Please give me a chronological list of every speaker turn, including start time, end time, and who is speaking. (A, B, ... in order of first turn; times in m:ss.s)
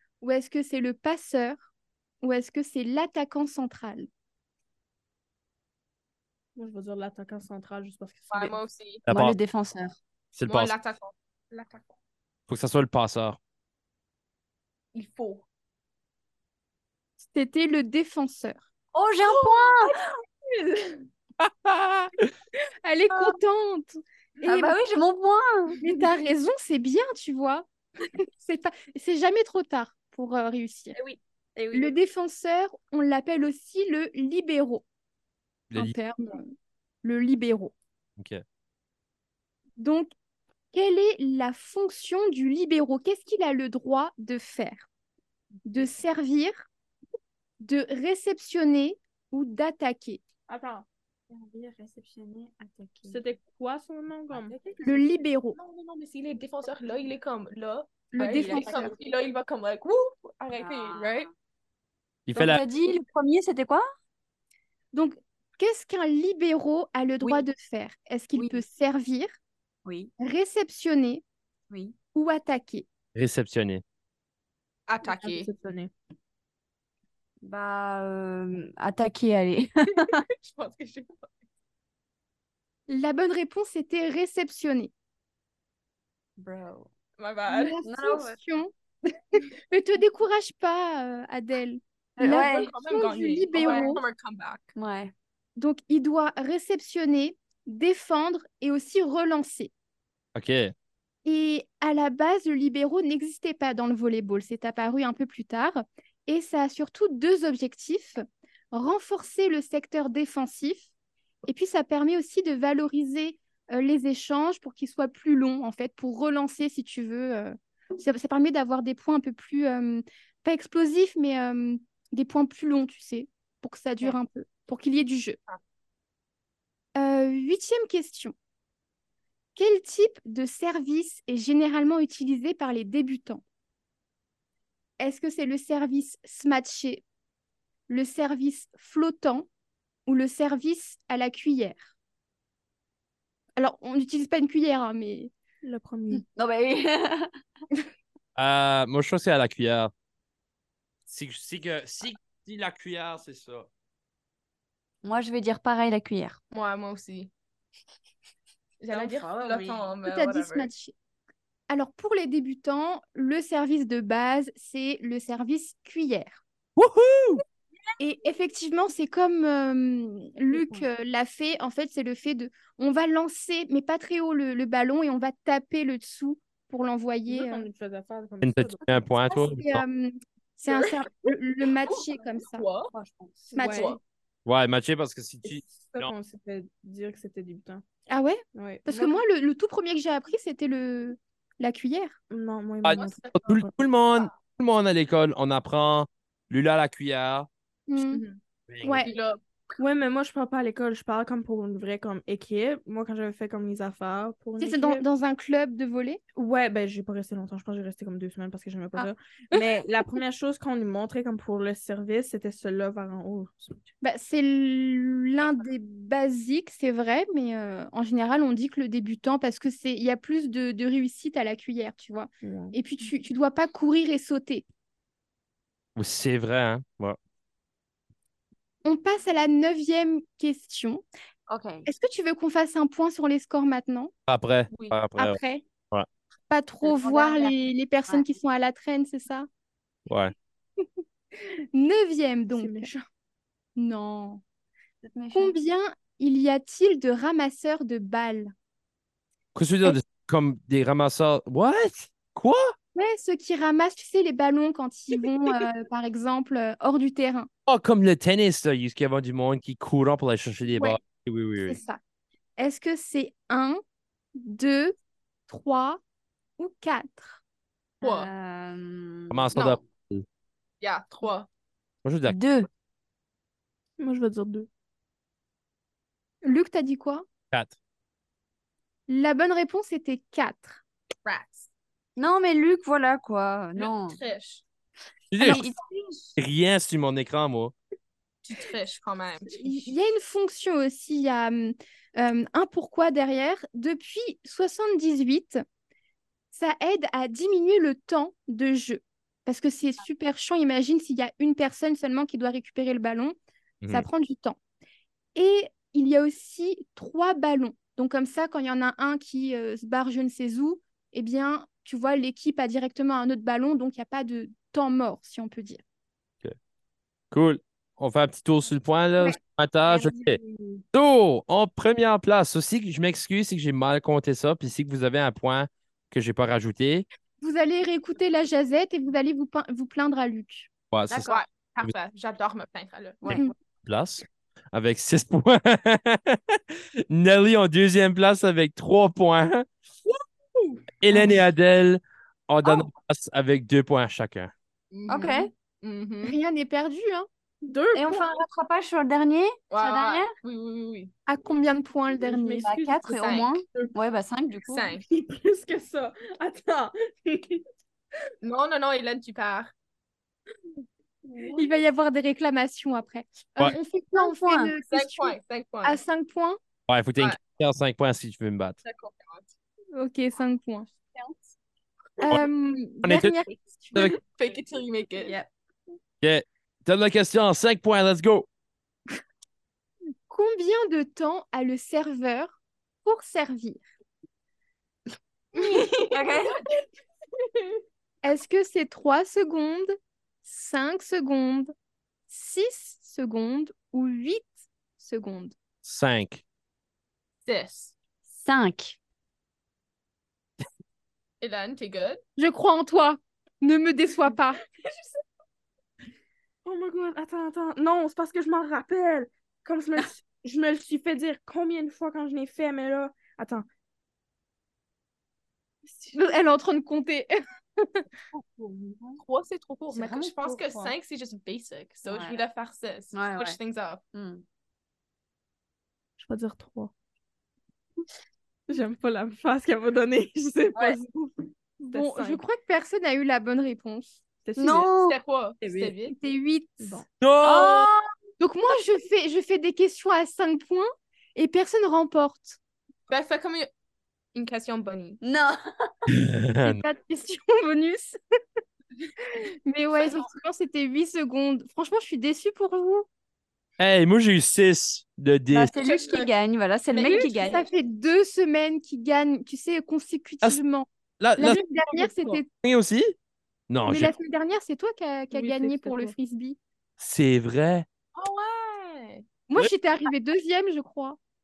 0:00.2-0:01.7 A
0:02.2-0:04.1 A
0:06.6-0:08.6 B
0:08.3-0:09.0 C
0:09.0-0:09.4 D
0:09.1-0:10.0 E
0:10.3-0:10.8 D
0:10.4-0:11.9 C
0:12.5-0:13.4 D
0:14.9-0:15.4 C
0:17.2-0:18.6 A
0:18.9-0:20.0 E
0:19.3-0:19.7 C
0:20.7-0:21.0 B
0:21.4-0:22.1 D
0:22.8-0:24.8 A
0:23.1-0:23.4 E
0:24.4-0:25.8 E
0:25.8-0:27.7 A
0:28.4-0:30.9 A
0:31.0-0:31.9 E
0:31.7-0:34.8 A
0:35.7-0:36.0 D
0:35.7-0:36.5 A
0:37.0-0:37.7 A
0:39.8-0:40.1 A
0:40.7-0:44.9 A
0:45.6-0:46.7 A
0:47.6-0:50.2 A
0:50.5-0:50.8 B
0:51.3-0:53.2 E
0:53.1-0:54.5 B
0:54.3-0:54.8 E
0:54.8-0:55.6 A
0:55.5-1:01.3 C
0:58.1-0:58.9 A
0:58.2-0:58.9 E
1:00.5-1:01.3 E
1:02.3-1:02.6 D
1:02.3-1:03.9 E
1:04.9-1:09.3 A
1:07.2-1:07.4 E
1:08.3-1:08.6 E
1:09.8-1:10.1 E
1:10.2-1:11.2 A
1:11.7-1:11.9 E
1:12.1-1:12.9 A
1:13.1-1:13.8 D
1:14.9-1:15.5 C
1:15.0-1:15.9 B
1:17.4-1:20.2 E
1:20.4-1:21.3 C
1:22.9-1:24.9 A
1:26.4-1:26.9 E
1:27.2-1:27.8 C
1:27.5-1:28.7 A
1:27.8-1:28.4 E
1:29.3-1:34.0 A
1:32.2-1:32.7 E
1:32.2-1:34.7 C
1:33.6-1:34.0 E
1:34.8-1:35.1 E
1:35.6-1:39.7 A
1:40.3-1:40.7 D
1:41.2-1:50.9 A
1:51.4-2:05.4 A
2:07.0-2:08.3 A
2:09.6-2:13.4 A
2:15.0-2:17.0 A
2:17.9-2:19.5 A
2:20.1-2:21.9 A
2:23.6-2:25.3 A
2:25.6-2:26.2 B
2:26.1-2:27.3 E
2:28.4-2:29.9 D
2:31.1-2:33.7 D
2:35.0-2:36.4 E
2:36.5-2:37.3 C
2:38.8-2:40.7 C
2:38.9-2:39.9 E
2:40.0-2:40.9 A
2:41.7-2:46.4 A
2:46.8-2:47.4 D
2:48.0-2:57.7 A
2:50.6-2:50.8 E
2:57.3-2:58.9 B
2:58.4-2:59.8 D
2:59.2-3:02.6 A
3:01.8-3:02.9 C
3:02.9-3:03.6 E
3:03.5-3:04.0 A
3:03.6-3:03.9 B
3:03.6-3:04.0 C
3:04.4-3:06.1 D
3:05.4-3:07.8 B
3:08.1-3:12.2 A
3:08.5-3:09.2 B
3:12.3-3:13.7 B
3:12.8-3:17.5 D
3:12.9-3:13.5 C
3:17.9-3:18.2 A
3:18.0-3:18.4 C
3:18.7-3:19.1 D
3:18.8-3:19.1 A
3:19.0-3:19.4 C
3:19.8-3:25.0 B
3:24.6-3:26.2 A
3:26.3-3:33.8 B
3:34.0-3:44.6 A
3:42.4-3:42.8 B
3:46.0-3:47.2 D
3:48.8-3:51.0 A
3:51.5-3:51.9 E
3:51.8-3:54.1 A
3:54.3-3:55.4 D
3:54.7-3:55.0 C
3:55.2-3:55.6 A
3:56.5-3:59.5 A
3:56.8-3:58.3 E
4:00.1-4:00.3 D
4:01.7-4:02.9 A
4:02.5-4:03.0 B
4:03.8-4:04.4 A
4:05.0-4:05.5 E
4:05.3-4:08.5 A
4:09.5-4:12.7 D
4:12.9-4:17.5 A
4:17.7-4:21.8 D
4:21.6-4:22.0 A
4:22.6-4:23.8 A
4:24.4-4:25.0 A
4:25.5-4:26.0 A
4:26.6-4:27.4 A
4:28.0-4:28.3 C
4:28.0-4:29.5 E
4:29.3-4:30.2 D
4:30.8-4:31.5 C
4:32.0-4:32.4 D
4:32.2-4:32.7 E
4:34.0-4:34.7 B
4:36.4-4:37.2 A
4:37.5-4:37.8 D
4:39.1-4:40.8 A
4:41.2-4:41.7 C
4:42.2-4:44.2 E
4:43.8-4:44.6 C
4:45.3-4:45.7 D
4:45.4-4:45.8 E
4:46.4-4:47.7 D
4:48.4-4:49.9 C
4:49.5-4:55.6 A
4:56.5-5:03.3 A
5:03.8-5:04.1 D
5:03.9-5:04.6 A
5:05.3-5:15.8 A
5:17.3-5:20.4 D
5:20.3-5:20.6 E
5:20.9-5:27.1 D
5:27.4-5:30.7 A
5:30.9-5:31.3 D
5:31.1-5:31.4 E
5:31.2-5:33.4 C
5:33.3-5:33.5 A
5:33.8-5:36.4 D
5:37.1-5:39.6 D
5:40.5-5:40.8 B
5:41.0-5:44.5 D
5:41.1-5:41.4 E
5:44.9-5:46.4 C
5:45.1-5:45.5 E
5:46.2-5:47.3 A
5:47.6-5:48.3 B
5:47.9-5:50.3 E
5:49.7-5:51.1 C
5:51.3-5:52.8 A
5:52.1-5:53.8 B
5:52.6-5:54.9 E
5:53.0-5:53.9 C
5:54.7-5:55.0 C
5:55.0-5:57.6 B
5:58.4-5:59.7 C
6:01.3-6:01.7 B
6:01.5-6:06.6 A
6:04.1-6:04.7 E
6:04.9-6:06.0 C
6:06.9-6:08.8 D
6:08.8-6:09.5 C
6:09.9-6:10.9 A
6:12.2-6:14.1 A
6:13.0-6:13.4 D
6:13.5-6:15.4 C
6:15.2-6:15.5 E
6:16.2-6:18.5 D
6:20.3-6:23.8 A
6:26.1-6:26.5 E
6:28.2-6:31.7 A
6:32.3-6:35.6 A
6:35.8-6:36.4 D
6:37.4-6:38.0 C
6:38.3-6:39.0 E
6:41.4-6:42.2 C
6:42.4-6:44.6 A
6:46.6-6:53.7 B
6:55.9-6:58.0 A
6:58.3-6:59.2 E
6:59.2-7:04.0 C
6:59.9-7:00.9 E
7:02.0-7:02.4 E
7:03.1-7:03.6 E
7:04.1-7:04.4 E
7:06.2-7:06.9 B
7:08.7-7:12.4 B
7:11.8-7:14.2 A
7:14.4-7:14.9 B
7:14.6-7:16.0 E
7:14.9-7:16.1 C
7:16.1-7:17.0 A
7:16.8-7:17.1 B
7:17.2-7:17.8 D
7:17.4-7:17.8 C
7:17.4-7:17.9 E
7:18.4-7:22.6 A
7:23.1-7:23.7 C
7:24.3-7:25.2 C
7:25.2-7:26.1 E
7:26.3-7:26.8 D
7:26.6-7:28.2 A
7:29.6-7:33.0 A
7:33.8-7:35.7 D
7:35.5-7:37.6 E
7:35.8-7:36.3 C
7:36.9-7:37.7 C
7:37.1-7:42.5 A
7:41.2-7:41.6 D
7:41.6-7:42.2 B
7:42.5-7:43.1 D
7:43.7-7:44.1 D
7:43.8-7:46.6 A
7:45.3-7:46.1 B
7:47.0-7:47.8 D
7:48.1-7:49.2 C
7:49.5-7:51.2 A